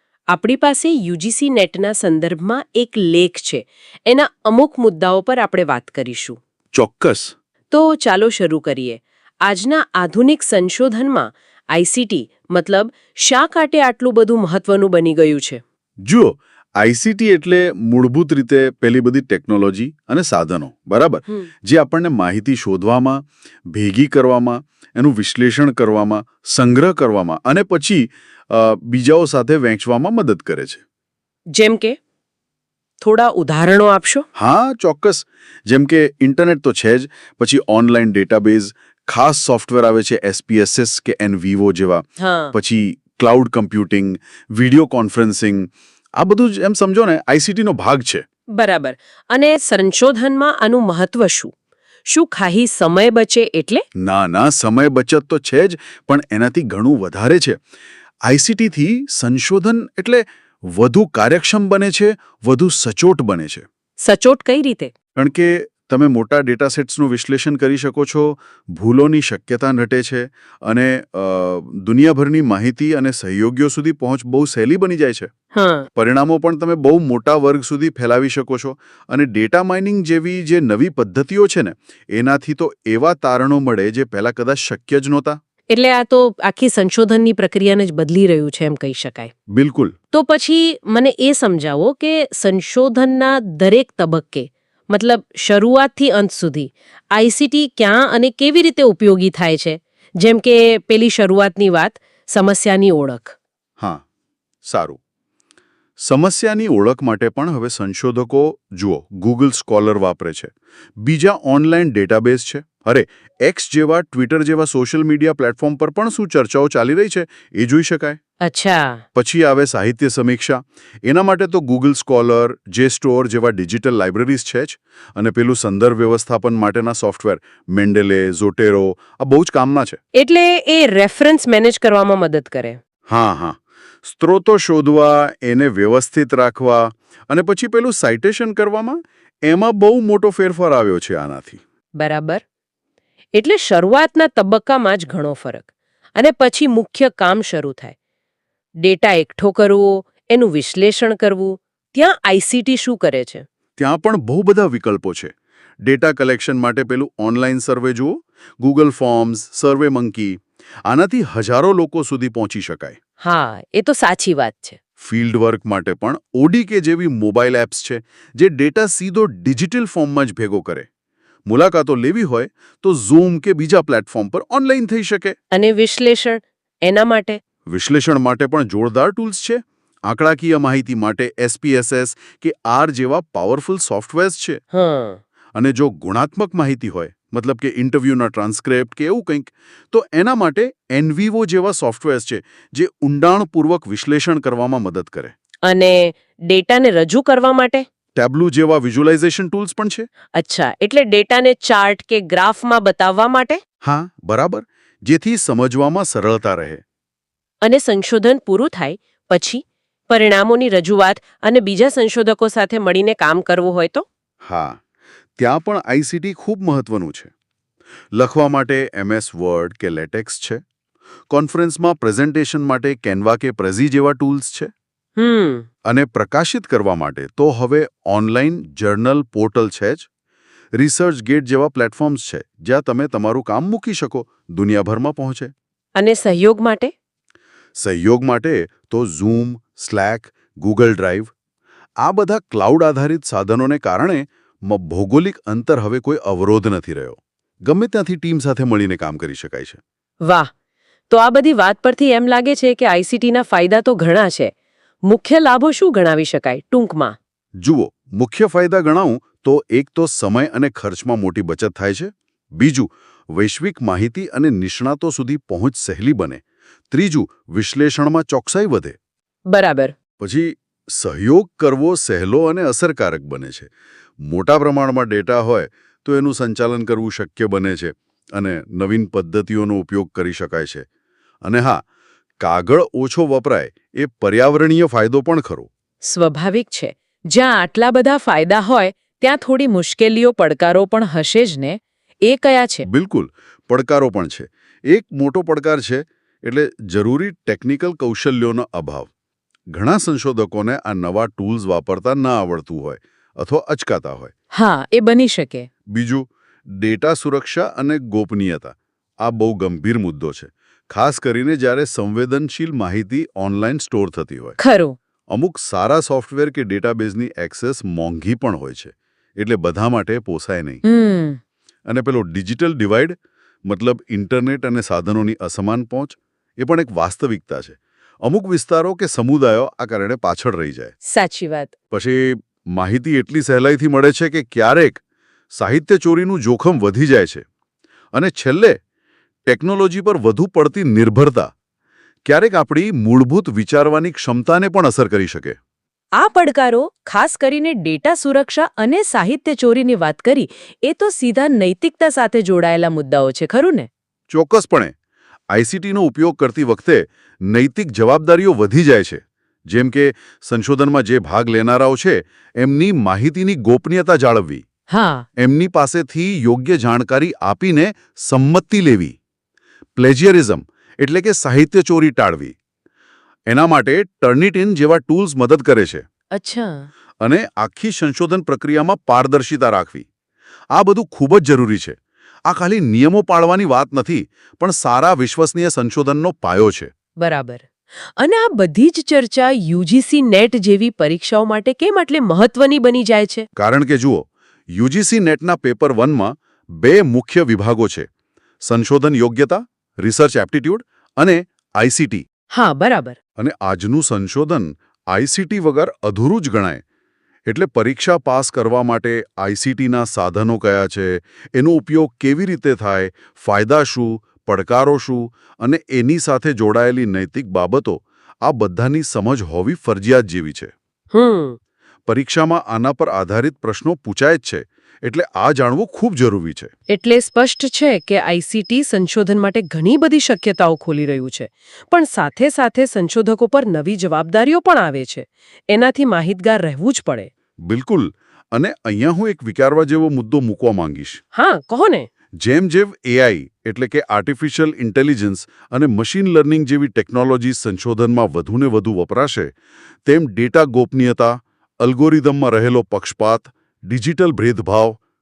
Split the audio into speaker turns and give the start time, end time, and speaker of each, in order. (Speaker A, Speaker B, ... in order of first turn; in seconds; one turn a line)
Speaker A: 0.3-6.4
Speaker B: 6.7-7.3
Speaker A: 7.7-15.6
Speaker B: 16.0-30.8
Speaker A: 31.5-32.0
Speaker A: 33.0-34.2
Speaker B: 34.4-48.2
Speaker A: 42.2-42.5
Speaker A: 48.5-51.5
Speaker A: 52.1-53.8
Speaker B: 54.0-57.6
Speaker B: 58.3-63.6
Speaker A: 64.0-64.9
Speaker B: 65.2-75.3
Speaker A: 75.5-75.9
Speaker B: 76.0-85.4
Speaker A: 85.7-89.3
Speaker B: 89.5-89.9
Speaker A: 90.1-103.3
Speaker B: 104.7-105.0
Speaker B: 106.0-118.2
Speaker A: 118.4-119.0
Speaker B: 119.1-130.0
Speaker A: 130.1-132.8
Speaker B: 133.1-141.6
Speaker A: 142.0-142.4
Speaker A: 143.3-147.9
Speaker A: 148.8-153.4
Speaker B: 153.8-155.3
Speaker B: 155.8-163.0
Speaker A: 163.2-164.8
Speaker B: 165.0-170.9
Speaker B: 171.4-175.3
Speaker A: 175.5-177.4
Speaker B: 177.7-184.6
Speaker A: 184.7-185.2
Speaker B: 185.5-195.3
Speaker A: 195.7-197.8
Speaker B: 198.2-200.1
Speaker A: 200.3-203.6
Speaker B: 203.8-206.8
Speaker A: 207.6-214.1
Speaker B: 214.4-214.8
Speaker B: 215.4-217.3
Speaker B: 218.1-220.6
Speaker B: 221.3-224.7
Speaker A: 225.2-225.7
Speaker B: 225.8-230.1
Speaker B: 230.8-235.5
Speaker A: 236.0-236.9
Speaker B: 237.8-241.3
Speaker B: 242.0-249.8
Speaker A: 251.1-254.5
Speaker A: 255.1-257.1
Speaker B: 257.6-269.0
Speaker A: 269.5-269.9
Speaker B: 270.2-273.7
Speaker B: 274.2-280.9
Speaker B: 281.4-281.8
Speaker B: 282.4-285.7
Speaker A: 286.0-292.9
Speaker B: 292.9-299.1
Speaker B: 299.7-304.3
Speaker A: 304.5-305.7
Speaker B: 305.9-314.6
Speaker A: 314.6-314.9
Speaker B: 315.3-320.8
Speaker A: 320.8-321.4
Speaker B: 321.9-330.9
Speaker A: 331.1-331.7
Speaker B: 331.9-335.0
Speaker B: 335.5-337.4
Speaker B: 338.1-338.8
Speaker B: 339.4-341.5
Speaker B: 342.2-345.6
Speaker A: 346.1-353.9
Speaker B: 354.3-354.9
Speaker B: 355.5-364.6
Speaker A: 364.9-365.2
Speaker B: 365.4-369.1
Speaker B: 369.9-372.6
Speaker B: 373.5-376.0
Speaker A: 376.3-376.9
Speaker B: 377.2-380.1
Speaker B: 380.7-386.9
Speaker A: 387.2-393.4
Speaker B: 393.6-398.1
Speaker B: 398.6-402.2
Speaker A: 402.5-403.2
Speaker B: 403.4-406.8
Speaker B: 407.5-420.7
Speaker A: 421.1-421.6
Speaker B: 422.1-426.7
Speaker A: 426.9-437.3
Speaker B: 437.6-441.2
Speaker A: 441.3-442.1
Speaker B: 442.4-449.5
Speaker B: 450.1-455.0